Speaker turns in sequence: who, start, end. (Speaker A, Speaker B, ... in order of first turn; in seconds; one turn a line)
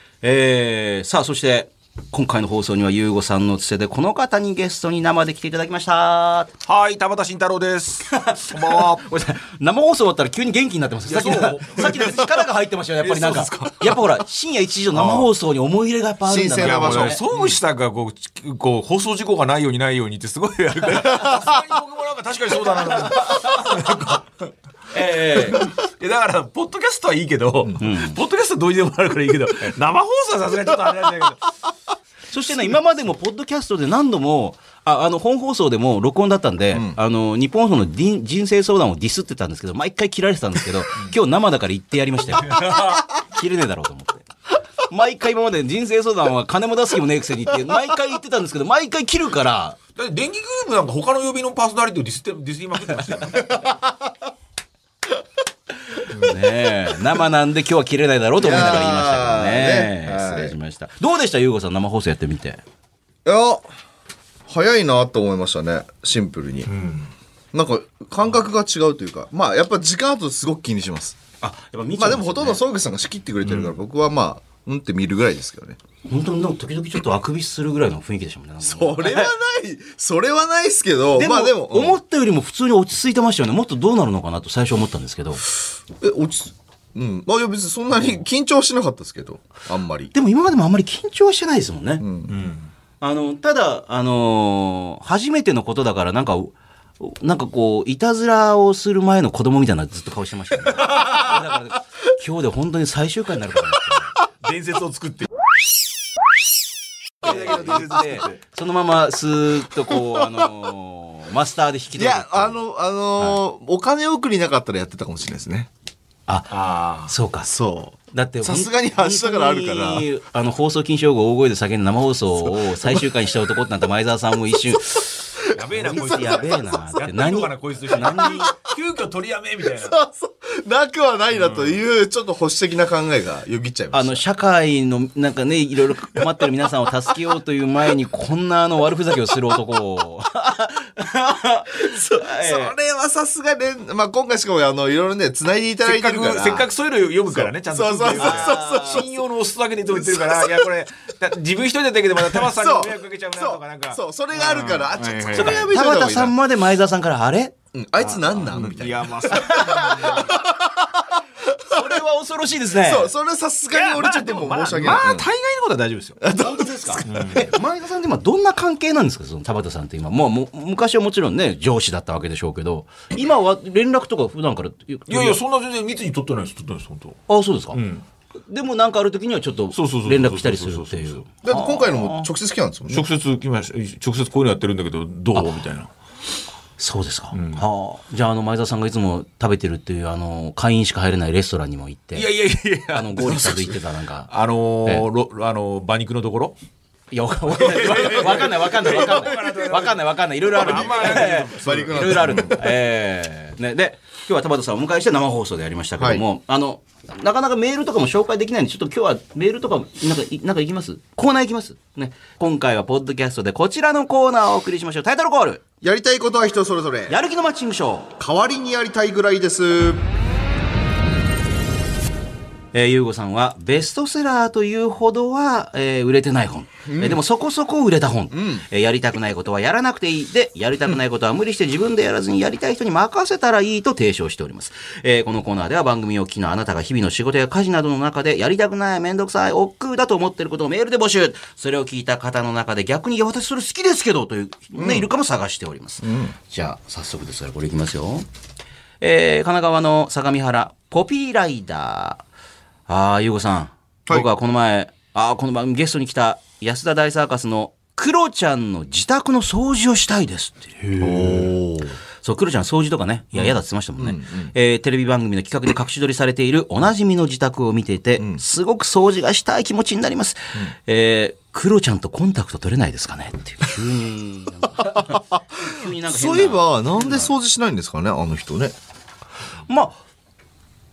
Speaker A: 0.2-6.5
Speaker B: 6.6-9.1
Speaker A: 8.1-17.2
Speaker B: 11.1-12.2
Speaker C: 13.0-14.0
Speaker C: 14.9-15.2
Speaker C: 16.2-17.5
Speaker B: 16.6-24.2
Speaker C: 21.0-21.6
Speaker A: 22.8-23.9
Speaker A: 24.9-25.7
Speaker B: 25.3-31.5
Speaker A: 27.8-28.2
Speaker A: 32.3-44.2
Speaker C: 36.7-37.0
Speaker B: 42.4-43.1
Speaker A: 44.9-49.8
Speaker B: 50.0-53.7
Speaker C: 53.5-54.0
Speaker A: 56.1-62.6
Speaker C: 58.4-60.5
Speaker C: 63.2-63.6
Speaker C: 64.5-66.7
Speaker B: 66.7-67.1
Speaker C: 67.5-71.2
Speaker A: 71.4-72.6
Speaker C: 72.0-75.8
Speaker B: 73.4-73.7
Speaker A: 76.0-79.3
Speaker C: 78.6-82.0
Speaker A: 81.1-85.4
Speaker C: 85.9-90.1
Speaker A: 90.1-92.0
Speaker C: 92.0-92.3
Speaker B: 92.3-92.7
Speaker A: 93.0-104.1
Speaker B: 100.8-101.3
Speaker B: 104.4-105.3
Speaker C: 107.2-108.1
Speaker B: 107.2-108.4
Speaker A: 107.2-112.5
Speaker C: 109.9-110.5
Speaker C: 111.9-115.7
Speaker A: 116.3-117.5
Speaker B: 116.5-117.1
Speaker C: 117.4-120.1
Speaker A: 118.1-125.1
Speaker C: 122.7-123.0
Speaker C: 124.8-125.0
Speaker B: 125.4-129.9
Speaker C: 125.5-126.9
Speaker A: 125.8-128.5
Speaker C: 129.7-134.2
Speaker B: 131.3-131.8
Speaker A: 133.9-142.7
Speaker C: 141.8-146.7
Speaker B: 145.8-155.7
Speaker C: 147.3-149.2
Speaker A: 148.1-149.0
Speaker C: 149.9-150.7
Speaker C: 152.2-156.3
Speaker A: 155.3-157.5
Speaker C: 157.7-162.0
Speaker B: 158.2-160.4
Speaker A: 159.3-160.3
Speaker A: 161.7-163.1
Speaker C: 162.8-165.3
Speaker B: 163.7-166.2
Speaker C: 166.2-167.6
Speaker A: 166.3-175.4
Speaker B: 167.0-167.4
Speaker B: 175.1-177.2
Speaker A: 177.3-177.8
Speaker B: 177.7-178.0
Speaker A: 178.5-182.3
Speaker B: 179.7-181.2
Speaker C: 181.4-183.1
Speaker B: 182.9-185.9
Speaker A: 186.8-192.3
Speaker B: 187.3-187.6
Speaker B: 192.1-193.5
Speaker A: 192.9-194.3
Speaker C: 193.3-193.6
Speaker B: 194.3-196.6
Speaker A: 197.1-215.6
Speaker B: 197.6-202.6
Speaker C: 197.8-199.3
Speaker C: 200.6-202.6
Speaker C: 206.0-206.2
Speaker C: 215.8-217.2
Speaker A: 217.1-218.1
Speaker C: 218.2-220.1
Speaker A: 222.7-248.2
Speaker C: 226.8-227.2
Speaker C: 228.3-228.6
Speaker C: 244.8-245.1
Speaker C: 246.0-246.3
Speaker A: 249.0-252.2
Speaker A: 252.9-261.5
Speaker C: 261.0-262.0
Speaker A: 262.2-277.3
Speaker C: 263.4-264.5
Speaker C: 268.2-268.4
Speaker C: 274.8-278.7
Speaker A: 279.7-280.0